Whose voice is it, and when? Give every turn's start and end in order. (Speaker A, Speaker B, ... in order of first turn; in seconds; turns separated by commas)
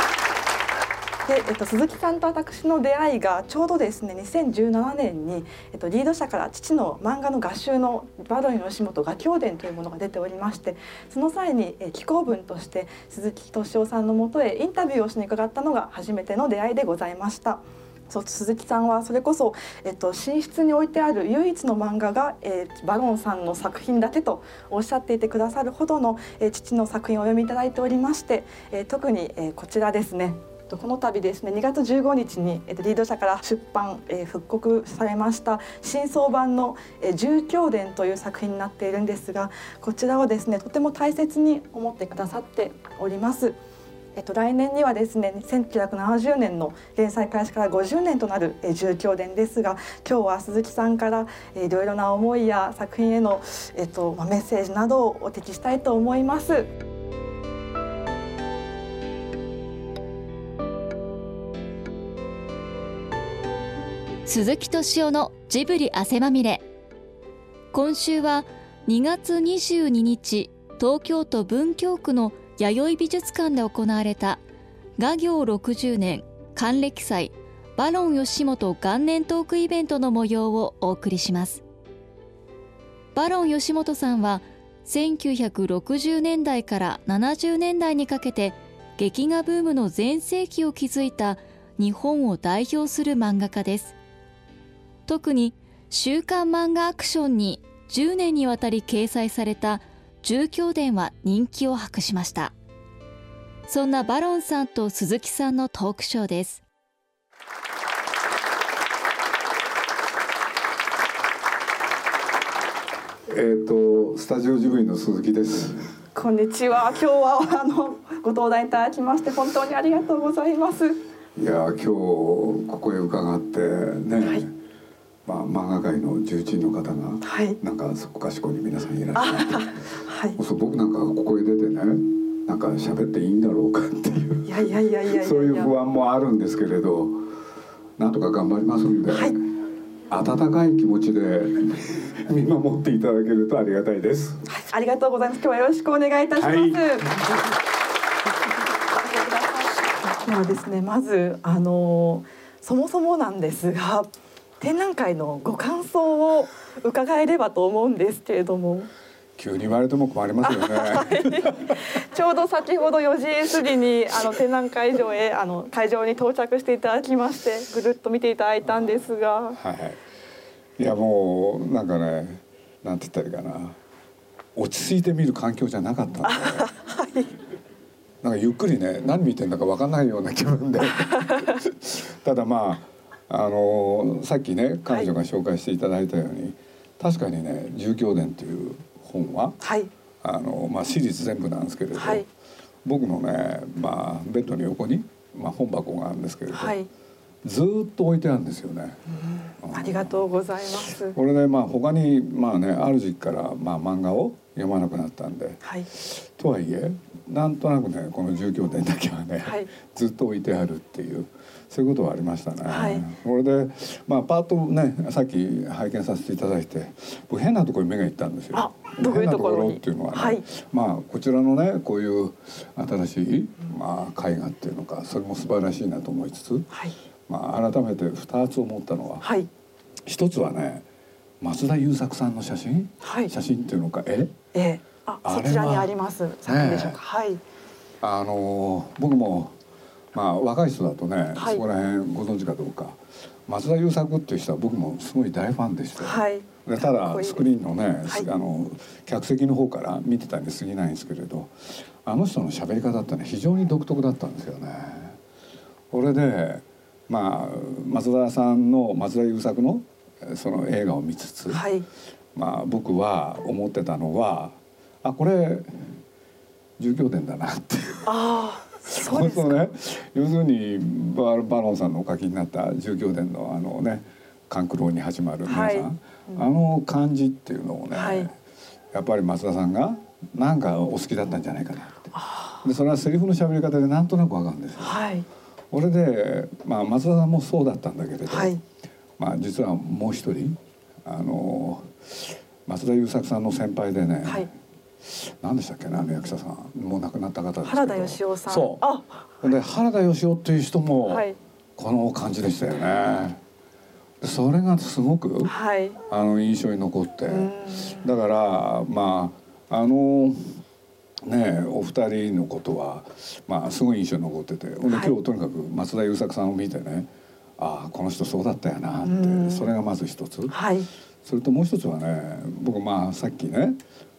Speaker A: 1.2-43.6, Speaker A: 44.1-56.7, Speaker B: 64.2-66.6, Speaker B: 67.7-74.4, Speaker B: 75.0-81.6, Speaker B: 83.1-93.9, Speaker B: 95.1-102.5, Speaker B: 103.7-106.6, Speaker C: 113.3-115.9, Speaker A: 116.1-121.0, Speaker C: 121.3-124.5, Speaker C: 125.2-129.7, Speaker A: 127.2-127.6, Speaker A: 129.1-130.4, Speaker C: 130.3-134.5, Speaker A: 134.4-135.7, Speaker C: 135.1-137.3, Speaker C: 138.0-139.4, Speaker A: 139.1-139.3, Speaker C: 140.1-144.4, Speaker A: 144.5-147.4, Speaker C: 146.4-147.3, Speaker A: 150.0-154.1, Speaker A: 154.6-158.9, Speaker C: 159.4-161.8, Speaker A: 160.4-169.6, Speaker C: 169.6-170.0, Speaker C: 170.8-173.8, Speaker C: 174.5-176.7, Speaker A: 176.2-177.3, Speaker C: 178.2-189.6, Speaker A: 181.0-181.5, Speaker A: 189.6-189.9, Speaker C: 190.2-192.2, Speaker A: 192.0-192.3, Speaker C: 192.8-196.7, Speaker A: 196.5-196.9, Speaker C: 197.4-199.0, Speaker A: 199.1-201.1, Speaker C: 199.6-200.2, Speaker C: 200.8-226.7, Speaker A: 209.4-209.7, Speaker A: 212.7-213.0, Speaker A: 218.5-220.4, Speaker A: 226.7-226.9, Speaker C: 227.3-229.2, Speaker A: 229.2-229.5, Speaker C: 230.0-230.8, Speaker C: 231.4-234.3, Speaker A: 233.0-233.3, Speaker A: 234.5-237.4, Speaker C: 235.2-235.9, Speaker C: 236.4-237.0, Speaker C: 238.0-239.6, Speaker C: 240.1-255.2, Speaker A: 241.3-241.6, Speaker A: 246.0-247.4, Speaker C: 255.9-261.6, Speaker A: 261.5-261.9, Speaker C: 262.3-266.0, Speaker C: 266.8-268.1, Speaker A: 268.1-269.7, Speaker C: 268.9-278.4, Speaker A: 275.4-276.4, Speaker A: 277.9-278.3, Speaker C: 278.9-285.0, Speaker A: 282.1-282.6, Speaker A: 284.8-285.2, Speaker C: 285.7-288.5, Speaker A: 288.3-288.6, Speaker C: 289.2-294.5, Speaker C: 295.0-298.8, Speaker A: 297.6-299.2, Speaker C: 299.4-301.2, Speaker A: 301.0-301.4, Speaker C: 301.8-303.4, Speaker C: 304.2-305.5, Speaker A: 305.4-306.0, Speaker C: 306.1-310.6, Speaker A: 307.3-308.1, Speaker C: 311.2-320.6, Speaker A: 314.9-315.1, Speaker A: 319.0-319.7, Speaker A: 320.5-320.9, Speaker C: 321.2-323.8